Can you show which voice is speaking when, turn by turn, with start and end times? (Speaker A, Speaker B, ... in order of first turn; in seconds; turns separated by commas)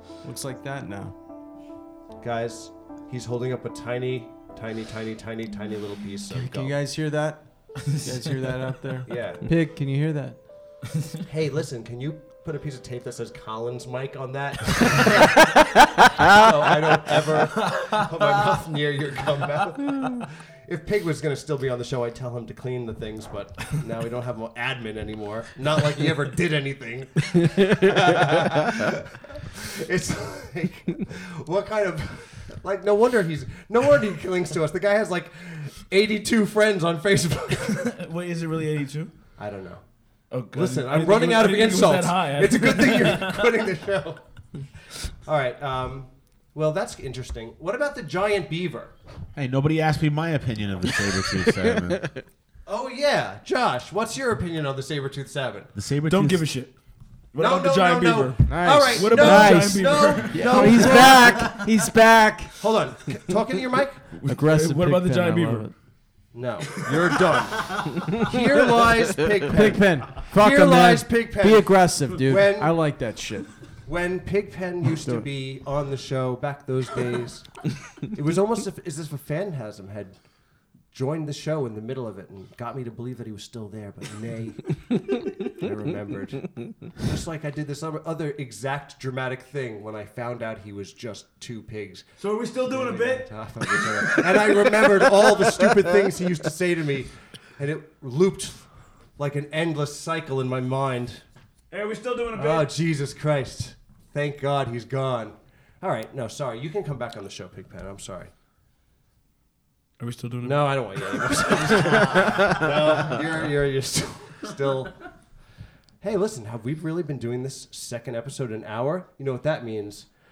Speaker A: 0.2-1.1, Speaker B: 2.2-6.8, Speaker A: 6.3-10.8, Speaker B: 9.1-9.5, Speaker B: 11.2-38.0, Speaker C: 38.0-39.1, Speaker B: 39.4-39.8, Speaker C: 40.3-43.5, Speaker B: 40.5-44.4, Speaker B: 45.2-48.9, Speaker D: 49.4-52.1, Speaker B: 52.7-55.7, Speaker D: 55.8-56.5, Speaker C: 56.1-56.8, Speaker C: 57.3-61.1, Speaker B: 57.4-61.6, Speaker A: 58.5-62.7, Speaker B: 62.6-64.1, Speaker C: 64.1-65.9, Speaker A: 64.2-65.7, Speaker B: 66.3-73.0, Speaker A: 69.5-73.8, Speaker B: 73.8-80.2, Speaker A: 75.0-75.3, Speaker B: 80.9-92.1, Speaker C: 92.2-94.9, Speaker B: 92.7-101.2, Speaker C: 101.7-102.7, Speaker B: 102.3-108.3, Speaker C: 110.0-112.3, Speaker B: 110.4-115.0, Speaker B: 116.0-120.1